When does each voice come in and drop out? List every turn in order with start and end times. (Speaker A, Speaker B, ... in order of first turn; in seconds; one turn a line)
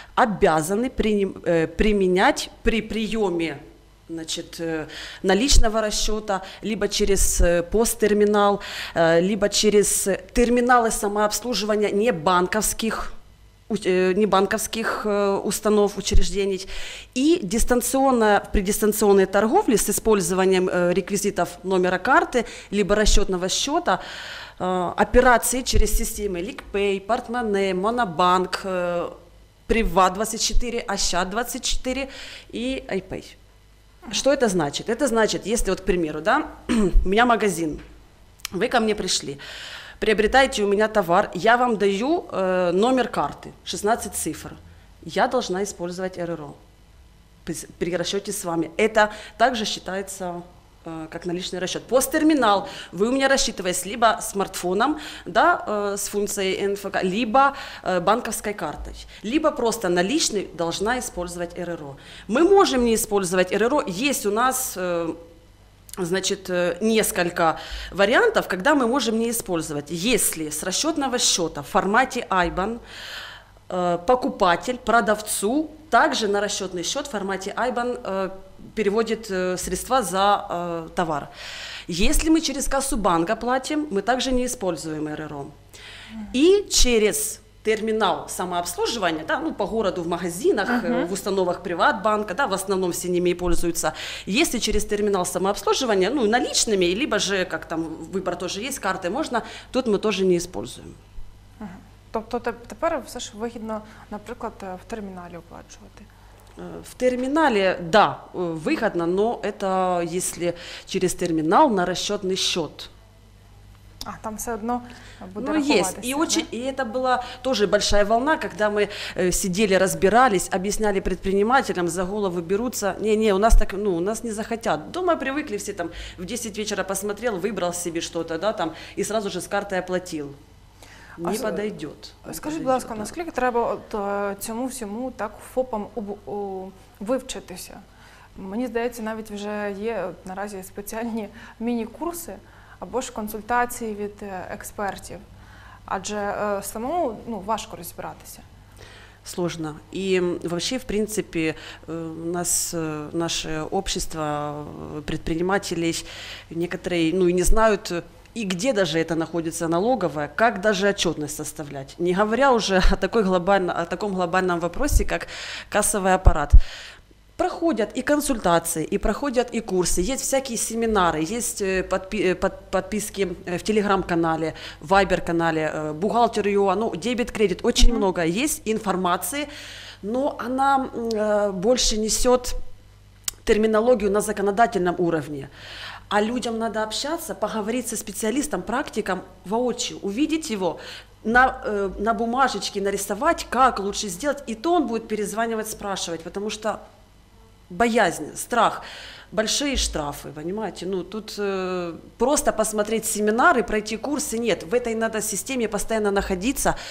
Speaker A: 0.1-13.1
Speaker A: 13.7-24.0
Speaker A: 24.6-29.1
Speaker A: 29.7-33.4
Speaker A: 34.1-37.8
Speaker A: 38.5-39.4
Speaker A: 40.0-46.6
Speaker A: 47.4-65.2
Speaker A: 66.0-72.8
Speaker A: 73.7-81.3
Speaker A: 81.9-85.5
Speaker A: 86.3-101.0
Speaker B: 90.7-91.1
Speaker B: 101.6-106.1
Speaker A: 106.6-112.9
Speaker B: 114.0-116.5
Speaker A: 115.4-130.3
Speaker A: 131.2-133.1
Speaker B: 131.2-131.6
Speaker B: 132.2-137.8
Speaker B: 138.3-145.2
Speaker B: 145.9-148.4
Speaker A: 149.2-166.6
Speaker A: 167.4-179.5
Speaker B: 177.8-178.0
Speaker A: 180.0-182.6
Speaker A: 183.4-185.5
Speaker A: 186.1-196.8
Speaker A: 197.7-206.8